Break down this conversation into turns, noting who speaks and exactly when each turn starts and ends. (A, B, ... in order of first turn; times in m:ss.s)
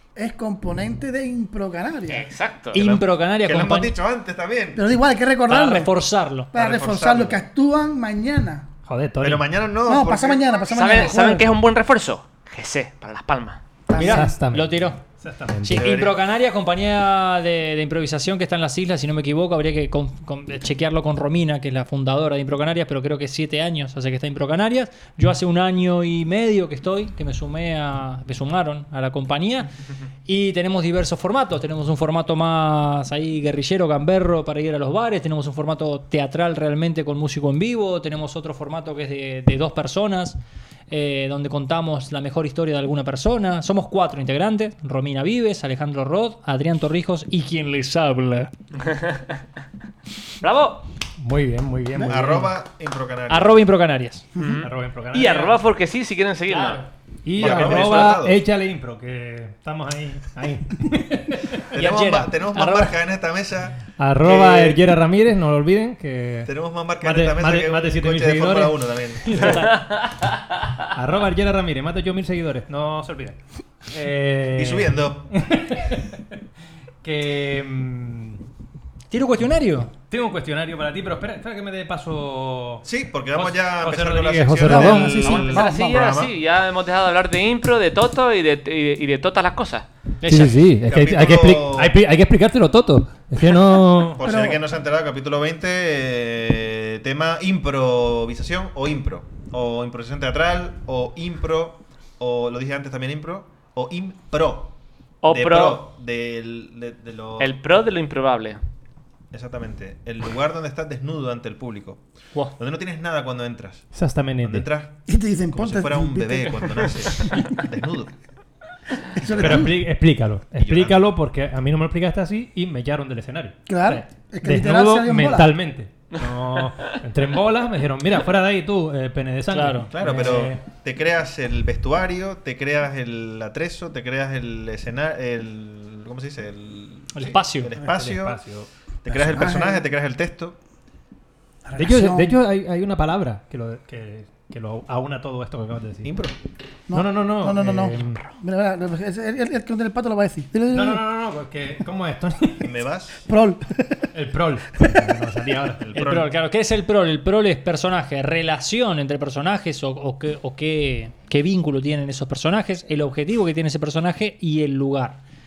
0:00.1-0:02.3 A
0:02.1-0:02.8 B
0:02.7-0:04.0 C
0:02.7-0:04.8 D
0:04.7-0:05.9 A
0:05.5-0:06.5 C
0:06.5-0:08.7 A
0:06.5-0:07.4 D
0:08.8-0:09.5 E
0:09.2-0:10.6 D
0:09.8-0:11.5 A
0:10.7-0:13.6 B
0:13.9-0:14.3 A
0:13.9-0:15.9 E
0:13.9-0:15.0 C
0:15.6-0:29.7 C
0:15.7-0:16.2 D
0:30.2-0:40.4 C
0:40.9-0:48.5 C
0:48.8-0:49.4 B
0:50.4-0:50.8 B
0:51.2-0:52.5 E
0:52.0-0:53.6 D
0:53.3-0:54.2 C
0:54.4-0:56.8 B
0:54.6-0:55.6 E
0:56.5-0:56.8 C
0:57.2-1:01.7 E
0:57.4-0:58.4 D
0:57.4-0:58.1 B
1:01.7-1:04.8 D
1:01.7-1:03.0 C
1:04.0-1:09.8 E
1:06.4-1:09.8 D
1:09.3-1:09.7 C
1:10.9-1:16.4 E
1:14.5-1:15.3 D
1:17.0-1:18.4 E
1:19.1-1:19.9 C
1:20.1-1:25.4 E
1:22.8-1:26.3 D
1:24.6-1:26.0 A
1:25.2-1:29.9 B
1:30.2-1:30.5 C
1:30.2-1:34.2 E
1:30.8-1:32.0 D
1:34.1-1:44.7 D
1:34.2-1:34.6 A
1:45.2-1:45.8 B
1:45.3-1:47.6 D
1:47.4-1:48.6 B
1:49.3-1:52.0 D
1:52.6-1:55.0 D
1:53.9-1:54.7 E
1:55.1-1:56.8 A
1:55.5-1:58.1 D
1:59.1-1:59.8 A
1:59.2-1:59.8 D
1:59.4-2:10.6 E
2:00.6-2:01.1 D
2:03.7-2:05.5 A
2:09.5-2:09.9 C
2:09.9-2:18.4 D
2:17.1-2:17.7 C
2:17.8-2:18.7 E
2:19.0-2:20.6 D
2:19.1-2:19.8 A
2:21.6-2:22.3 A
2:21.8-2:26.2 E
2:26.0-2:26.4 D
2:26.9-2:31.0 A
2:26.9-2:28.3 E
2:30.7-2:32.7 E
2:32.6-2:33.2 D
2:33.3-2:34.0 A
2:34.1-2:35.8 E
2:35.8-2:36.3 D
2:35.9-2:45.2 C